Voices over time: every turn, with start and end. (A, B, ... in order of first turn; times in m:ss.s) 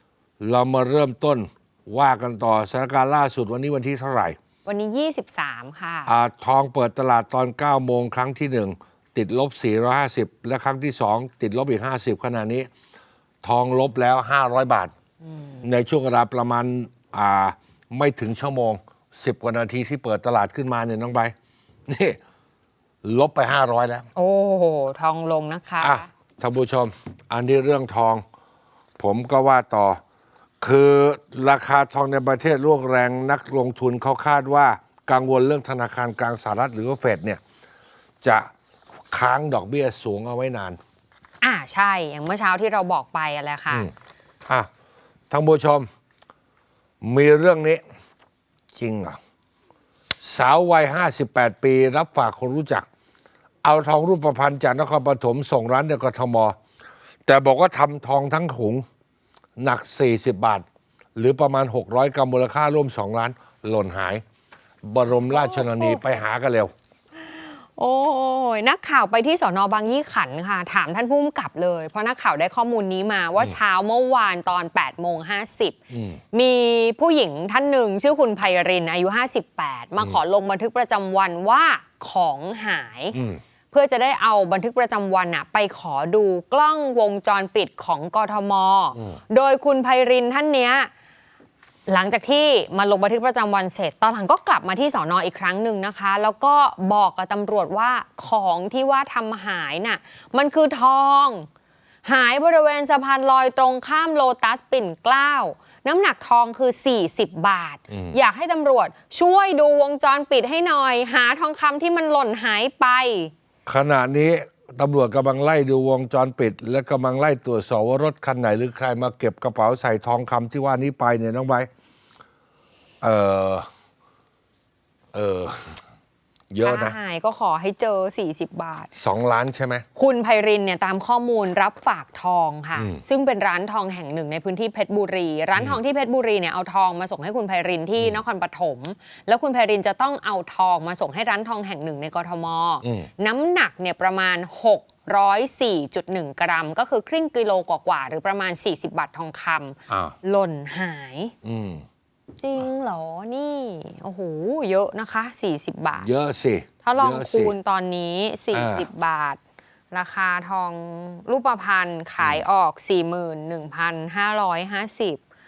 0:00.4-0:04.4 A
0:04.6-0:06.1 B
0:06.0-0:12.7 A
0:13.4-0:14.9 A
0:15.6-0:21.3 A
0:21.9-0:22.2 A
0:23.0-0:24.1 A
0:24.1-0:26.1 B
0:25.8-0:28.2 A
0:29.0-0:30.0 A
0:30.6-0:37.4 A
0:38.2-0:38.5 A
0:39.1-0:40.8 A
0:41.4-0:43.9 B
0:45.3-0:45.9 A
0:47.0-0:47.8 A
0:48.7-0:49.2 A
0:50.2-0:52.8 A
0:53.6-0:56.6 A
0:57.3-0:58.8 A
0:59.6-1:00.6 A
1:01.2-1:04.2 A
1:04.8-1:06.7 A
1:05.3-1:06.0 B
1:07.2-1:15.8 B
1:15.9-1:16.2 A
1:16.3-1:23.2 B
1:23.1-1:23.4 A
1:23.7-1:30.9 B
1:31.9-1:41.5 B
1:42.0-1:53.3 B
1:47.9-1:48.2 A
1:53.7-2:01.7 A
2:03.0-2:03.7 A
2:05.1-2:05.8 A
2:06.5-2:06.9 A
2:06.6-2:08.9 B
2:09.0-2:09.8 A
2:10.0-2:31.3 B
2:12.8-2:13.0 A
2:22.8-2:23.1 A
2:29.9-2:30.2 A
2:31.4-2:31.8 A
2:32.4-2:36.1 B
2:36.0-2:37.5 A
2:36.8-2:39.4 B
2:38.5-2:38.9 A
2:39.9-2:45.2 B
2:42.2-2:42.4 A